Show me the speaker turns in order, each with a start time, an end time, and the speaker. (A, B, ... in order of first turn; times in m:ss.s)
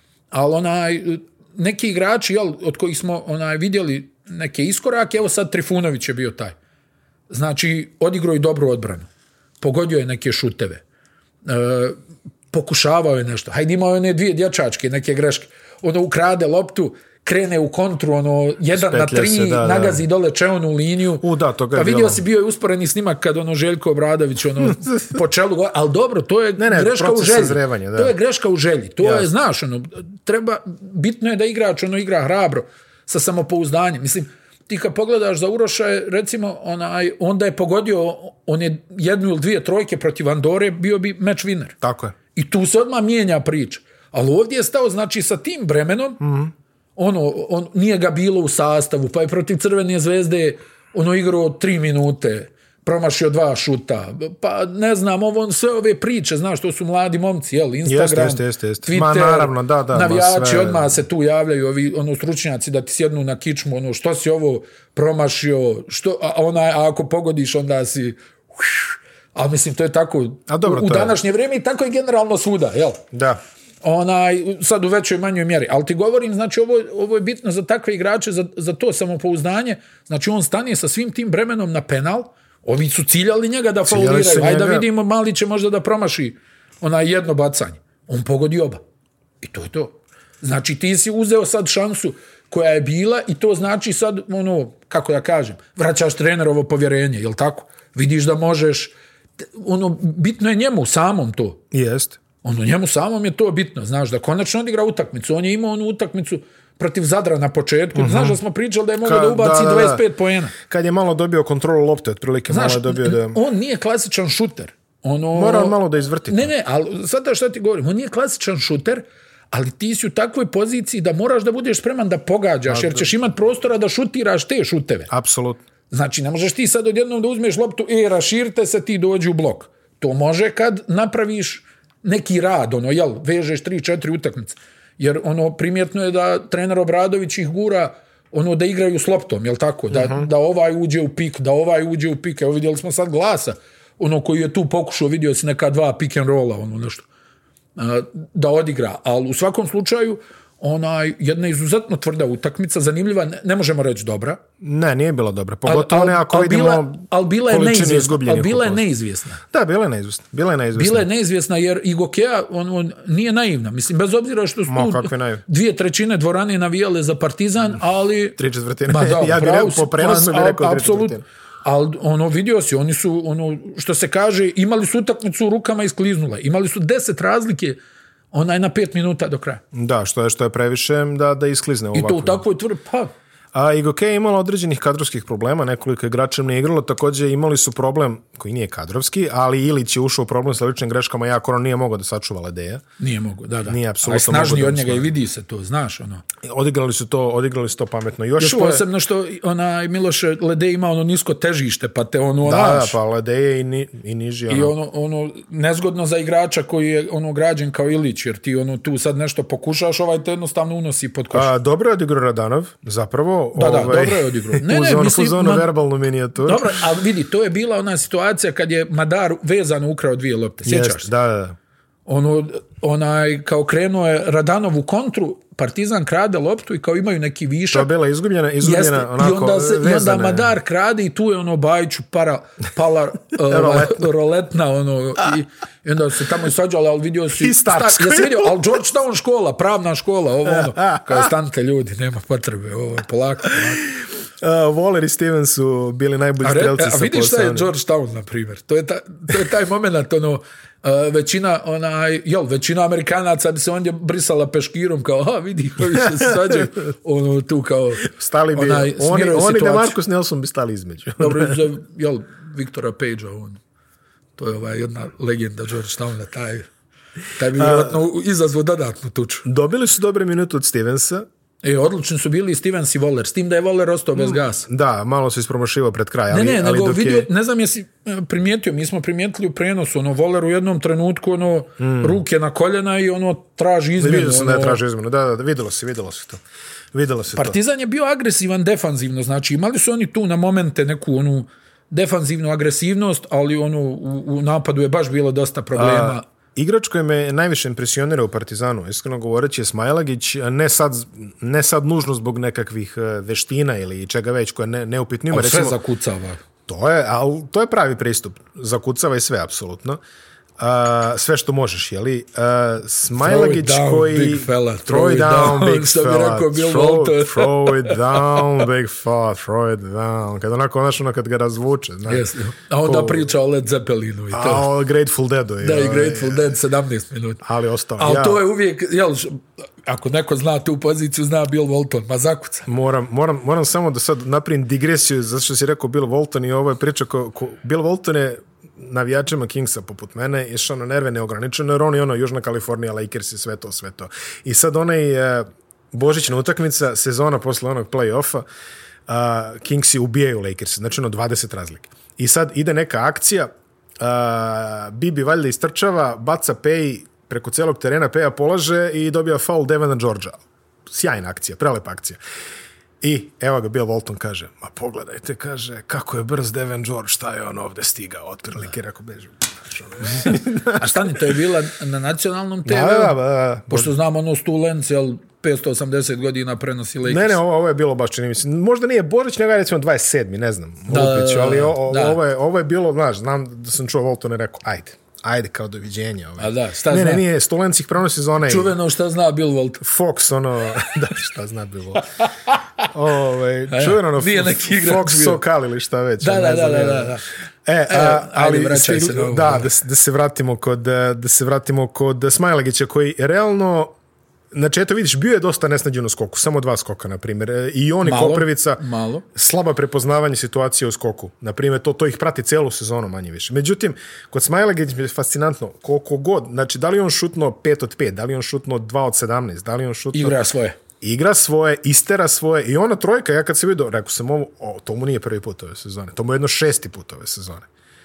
0:00.3-0:06.6 A
0:07.3-0:09.1 A
0:09.6-0:10.8 A
0:11.4-0:12.0 A
0:12.5-0:41.8 A
0:18.7-0:20.0 B
0:21.2-0:22.2 B
0:26.6-0:28.1 B
0:29.0-0:29.3 B
0:41.8-0:42.2 B
0:42.3-0:46.2 A
0:46.2-0:46.5 B
0:47.0-1:13.0 A
0:57.8-1:01.0 B
1:10.5-1:11.2 B
1:13.1-1:13.4 B
1:13.8-1:28.8 A
1:23.8-1:24.9 B
1:29.4-1:38.9 A
1:39.5-1:41.6 A
1:41.7-1:42.2 B
1:42.4-1:50.5 A
1:47.9-1:48.4 B
1:49.0-1:50.0 B
1:50.6-1:53.4 B
1:52.5-2:05.1 A
1:55.3-1:56.5 B
2:02.7-2:03.1 B
2:05.1-2:05.6 B
2:05.9-2:27.1 A
2:19.9-2:20.3 B
2:27.8-2:34.4 A
2:34.6-2:38.8 B
2:35.6-2:39.4 A
2:39.5-2:41.1 B
2:40.7-2:57.8 A
2:44.7-2:45.4 B
2:48.4-2:51.2 B
2:58.3-2:59.6 A
2:59.7-3:02.4 B
3:01.9-3:03.1 A
3:03.5-3:12.8 B
3:13.0-3:16.2 A
3:13.7-3:15.1 B
3:16.4-3:18.8 B
3:18.4-3:23.0 A
3:22.4-3:24.7 B
3:24.5-3:31.5 A
3:31.3-3:36.8 B
3:33.5-3:35.7 A
3:36.4-3:41.1 A
3:40.6-3:41.6 B
3:42.1-3:47.9 A
3:47.7-3:50.5 B
3:48.6-4:03.9 A
3:53.4-3:54.1 B
3:57.3-3:58.7 B
4:00.4-4:01.3 B
4:03.5-4:03.8 B
4:04.4-4:07.7 B
4:06.4-4:20.0 A
4:16.1-4:16.6 B
4:18.0-4:21.6 B
4:21.2-4:23.6 A
4:24.4-4:26.7 A
4:27.4-4:29.4 A
4:27.6-4:28.0 B
4:29.4-4:31.3 B
4:31.6-4:34.6 A
4:34.2-4:37.3 B
4:36.3-4:44.8 A
4:41.8-4:42.2 B
4:44.0-4:46.4 B
4:46.9-4:47.6 B
4:47.3-4:56.2 A
4:55.7-5:05.8 B
5:05.3-5:06.4 A
5:06.7-5:10.0 B
5:10.6-5:22.2 B
5:13.2-5:18.6 A
5:22.1-5:24.7 A
5:22.8-5:23.2 B
5:24.3-5:26.5 B
5:25.6-5:27.4 A
5:27.4-5:28.4 B
5:28.0-5:32.7 A
5:32.6-5:48.4 B
5:49.1-6:02.2 B
6:03.0-6:11.3 B
6:10.3-6:13.2 A
6:12.6-6:13.9 B
6:13.7-6:17.4 A
6:17.0-6:28.7 B
6:20.9-6:22.2 A
6:26.4-6:27.2 A
6:28.4-6:29.8 A
6:29.8-6:32.0 B
6:32.2-6:32.9 A
6:32.9-6:43.9 B
6:33.7-6:35.4 A
6:36.2-6:37.2 A
6:37.9-6:39.7 A
6:44.5-6:48.8 B
6:48.0-6:49.2 A
6:49.3-7:00.4 B
7:00.1-7:00.8 A
7:01.0-7:07.7 B